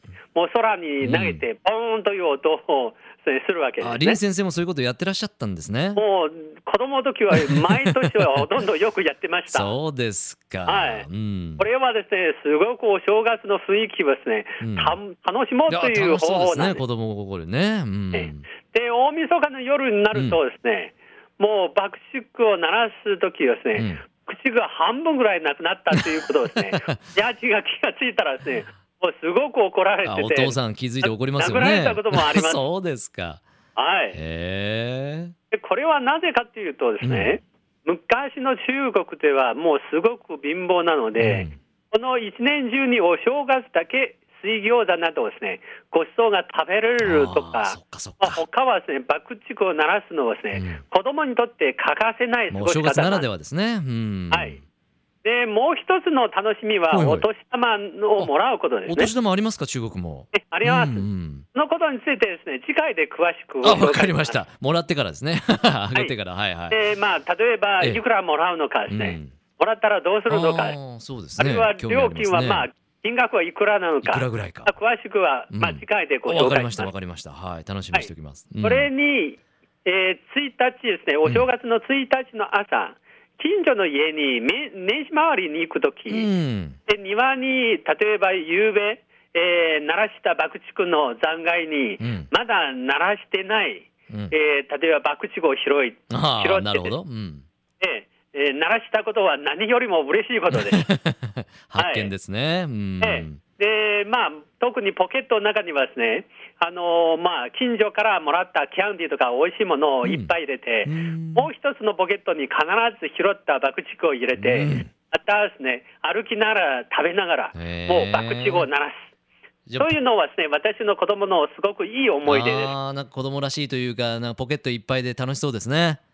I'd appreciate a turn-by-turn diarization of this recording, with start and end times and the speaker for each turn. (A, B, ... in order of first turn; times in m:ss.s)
0:00.4-0:04.2 A
0:01.0-0:01.4 B
0:03.8-0:06.0 B
0:06.0-0:09.8 A
0:07.3-0:08.1 B
0:09.5-0:11.7 B
0:10.7-0:11.1 A
0:11.6-0:16.8 A
0:14.6-0:15.0 B
0:15.7-0:18.5 B
0:18.1-0:32.7 A
0:20.1-0:20.4 B
0:23.8-0:24.0 B
0:25.9-0:27.0 B
0:30.0-0:33.4 B
0:33.8-0:34.2 A
0:34.1-0:35.3 B
0:35.5-0:53.3 A
0:37.0-0:37.4 B
0:41.2-0:41.5 B
0:47.0-0:48.4 B
0:50.5-0:50.8 B
0:52.5-0:54.6 B
0:54.3-0:54.6 A
0:55.2-0:59.1 A
0:56.9-0:57.3 B
0:58.9-1:01.4 B
1:00.3-1:04.4 A
1:03.6-1:06.8 B
1:06.7-1:10.8 A
1:08.9-1:09.3 B
1:10.3-1:12.7 B
1:11.4-1:16.9 A
1:14.0-1:14.7 B
1:15.5-1:18.9 B
1:18.6-1:26.3 A
1:26.1-1:26.8 B
1:26.9-1:37.0 A
1:32.0-1:32.3 B
1:36.1-1:37.4 B
1:37.8-1:40.9 A
1:40.5-1:43.4 B
1:41.8-1:42.1 A
1:43.0-1:59.0 A
1:50.0-1:50.3 B
1:50.8-1:51.5 B
1:54.4-1:54.9 B
1:57.5-1:58.7 B
1:59.7-2:00.0 B
1:59.8-2:02.8 A
2:02.3-2:06.0 B